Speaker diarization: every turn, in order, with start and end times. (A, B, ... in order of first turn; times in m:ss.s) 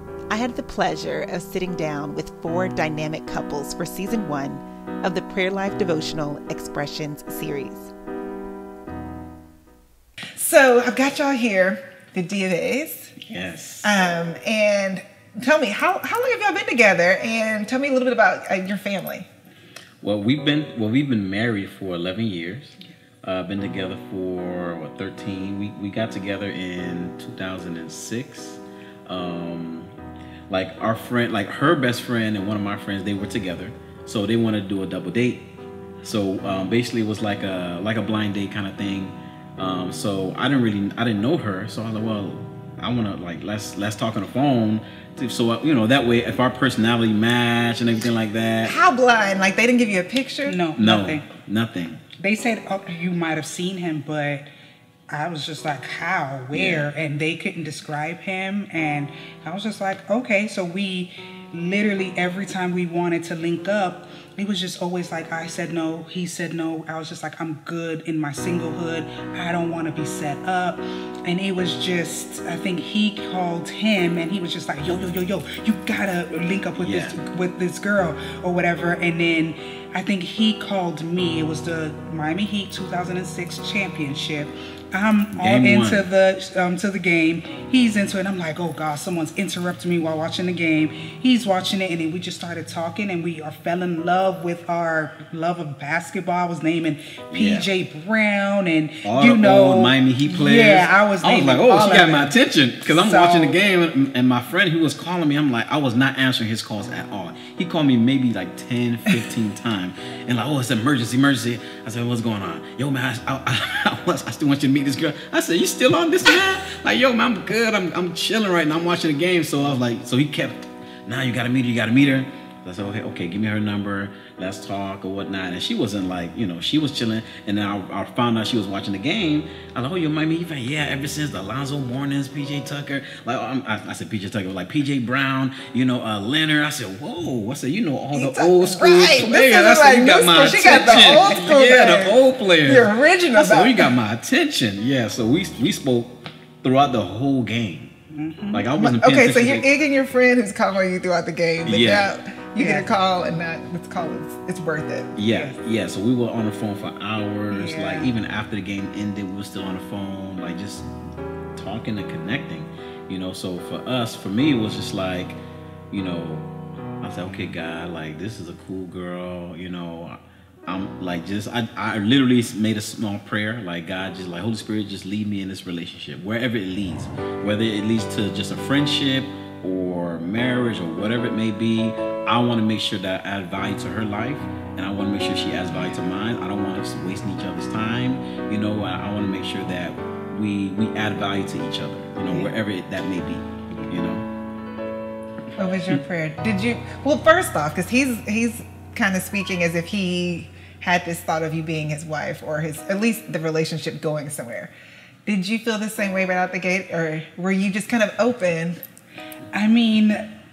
0:00.3-0:07.9 A
0:10.4-0:13.2 A
0:13.2-0:13.9 B
0:13.8-0:19.3 A
0:20.0-0:29.9 B
0:30.5-0:35.4 B
0:36.0-0:48.8 B
0:48.6-0:50.6 A
0:50.4-0:51.4 C
0:50.8-0:52.0 B
0:52.1-0:54.5 C
0:55.1-1:43.6 C
0:56.5-0:56.8 B
1:16.8-1:17.2 B
1:25.4-1:26.0 B
1:37.4-1:37.7 B
1:39.0-2:27.9 B
2:18.1-2:23.8 A
2:21.1-2:21.5 C
2:28.1-2:28.7 C
2:28.5-2:29.7 B
2:28.8-2:35.2 A
2:31.6-2:32.1 B
2:32.6-2:32.8 C
2:35.1-2:40.9 B
2:35.2-2:35.6 C
2:37.5-2:38.1 C
2:41.5-2:46.5 B
2:47.0-3:14.3 B
3:05.7-3:06.0 C
3:13.7-3:14.0 C
3:15.6-3:24.7 A
3:25.2-3:28.8 A
3:29.5-3:30.2 C